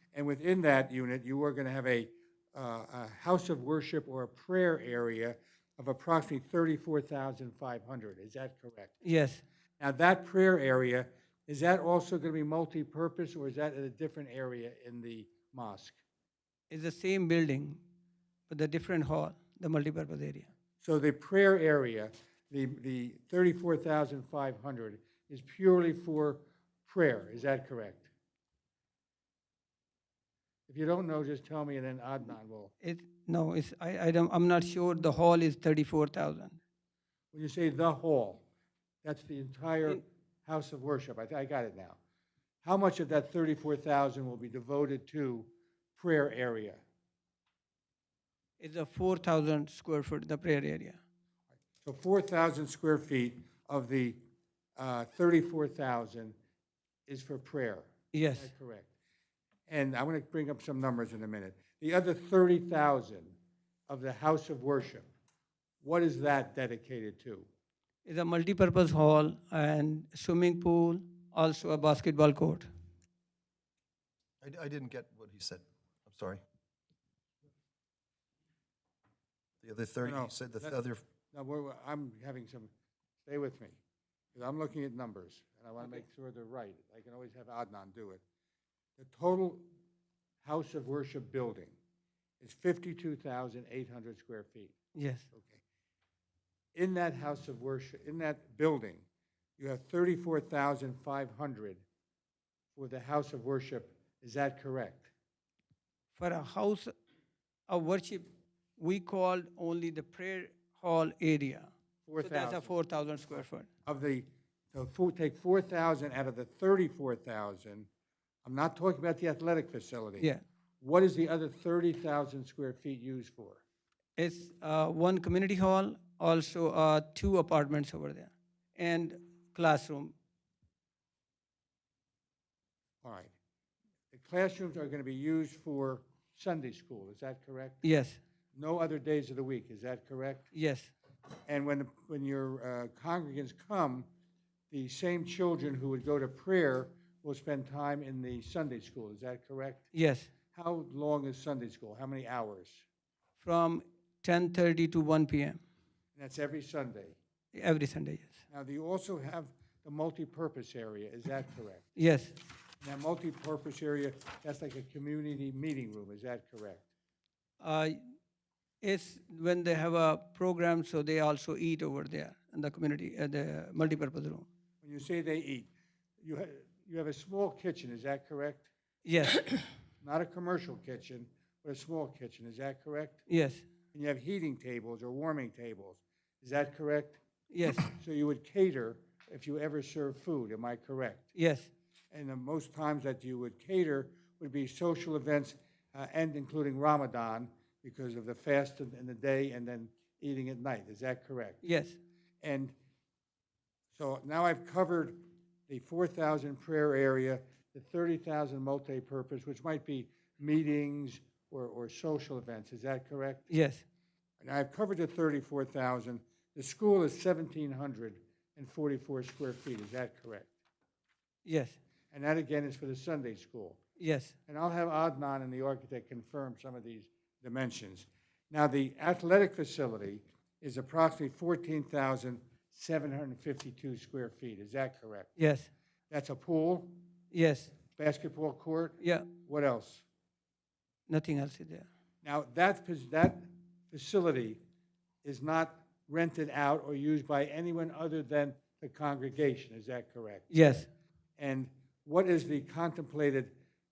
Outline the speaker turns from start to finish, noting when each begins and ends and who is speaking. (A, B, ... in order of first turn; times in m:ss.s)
0:00.1-0:09.0 A
0:09.0-0:09.4 B
0:09.8-0:16.0 A
0:16.7-0:17.8 B
0:18.5-0:20.5 B
0:20.8-0:28.1 A
0:30.7-0:32.7 A
0:32.8-0:36.6 B
0:37.3-0:38.4 A
0:39.0-0:42.0 A
0:42.6-0:46.8 A
0:48.6-0:51.0 B
0:51.8-0:54.2 A
0:54.8-0:56.3 A
0:57.1-0:58.9 A
0:58.1-0:58.5 B
0:59.7-1:03.4 A
1:03.9-1:05.0 A
1:05.8-1:07.5 A
1:08.0-1:12.7 B
1:14.4-1:16.4 C
1:19.6-1:21.0 C
1:20.0-1:20.8 A
1:21.3-1:22.7 A
1:23.2-1:23.8 A
1:24.3-1:28.2 A
1:29.0-1:29.7 A
1:30.4-1:31.7 A
1:32.4-1:34.8 A
1:34.9-1:35.2 B
1:35.3-1:35.6 A
1:36.7-1:39.0 A
1:39.6-1:41.8 A
1:42.8-1:45.1 A
1:46.2-1:46.9 B
1:47.7-1:48.2 B
1:48.8-1:51.7 B
1:52.0-1:52.7 A
1:52.2-1:53.7 B
1:53.8-1:57.9 A
1:58.4-2:00.3 A
2:00.8-2:03.6 A
2:04.2-2:10.1 B
2:13.0-2:13.3 A
2:14.1-2:17.8 A
2:17.8-2:18.2 B
2:18.5-2:20.5 A
2:20.5-2:20.9 B
2:21.5-2:24.1 A
2:24.7-2:29.9 A
2:29.9-2:30.3 B
2:30.5-2:32.8 A
2:33.4-2:35.6 B
2:36.1-2:37.2 A
2:37.5-2:38.4 B
2:38.5-2:41.9 A
2:42.0-2:42.3 B
2:42.8-2:46.8 A
2:47.6-2:48.0 B
2:48.8-2:54.4 B
2:54.8-2:55.7 A
2:56.2-2:58.7 A
2:59.0-2:59.6 B
3:00.0-3:03.2 A
3:03.3-3:03.6 B
3:03.9-3:07.2 A
3:07.5-3:07.9 B
3:07.8-3:11.3 A
3:11.3-3:11.7 B
3:12.1-3:21.6 A
3:21.6-3:22.0 B
3:22.4-3:22.7 A
3:23.9-3:33.4 A
3:33.5-3:33.8 B
3:34.4-3:40.5 A
3:41.4-3:41.8 B
3:42.1-3:43.8 A
3:44.0-3:44.3 B
3:44.5-3:55.4 A
3:55.4-3:55.7 B
3:56.1-3:57.0 A
3:57.3-3:57.8 B
3:57.9-4:00.0 A
3:59.0-3:59.3 B
4:01.1-4:01.9 B
4:02.2-4:04.6 A
4:05.2-4:10.5 A
4:10.5-4:10.9 B
4:11.4-4:13.5 A